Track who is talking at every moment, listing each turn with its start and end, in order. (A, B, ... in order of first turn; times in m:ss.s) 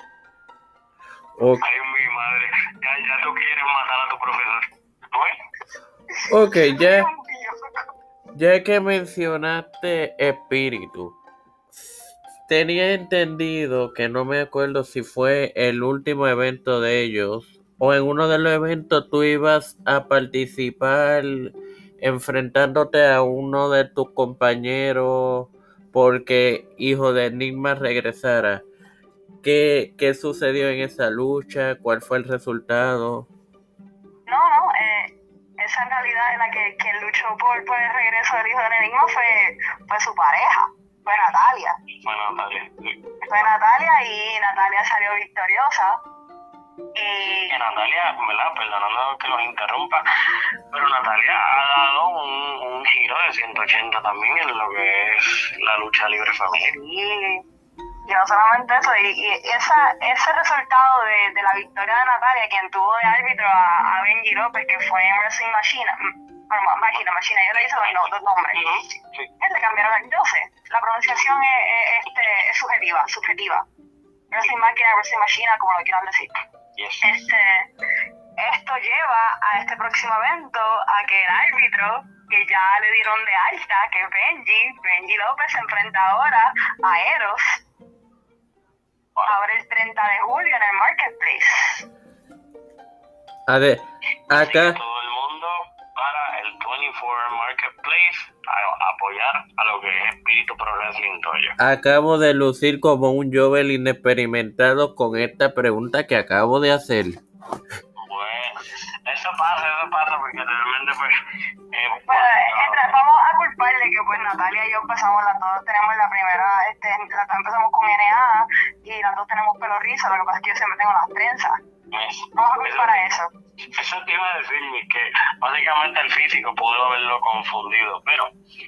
0:01.4-0:01.6 A
0:01.6-0:05.4 B
0:06.2-0:07.9 C
0:06.3-0:07.1 A
0:08.3-0:11.2 A
0:11.7-0:28.6 A
0:29.4-0:33.3 A
0:34.3-0:41.8 C
0:42.0-0:43.0 B
0:43.2-0:46.0 C
0:47.0-0:47.5 C
0:47.5-0:50.0 B
0:50.7-0:56.7 B
0:56.6-0:57.4 C
0:58.1-1:08.6 C
1:07.8-1:09.3 B
1:09.4-1:13.6 C
1:14.3-1:16.4 C
1:16.8-1:17.1 B
1:17.0-1:17.7 C
1:18.4-1:27.6 C
1:29.3-1:31.8 C
1:33.5-1:34.8 A
1:34.3-1:41.6 B
1:41.6-1:47.2 A
1:48.0-1:51.1 B
1:51.7-1:52.9 B
1:52.1-2:01.6 C
2:01.9-2:03.0 B
2:02.3-2:03.3 C
2:03.7-2:08.3 B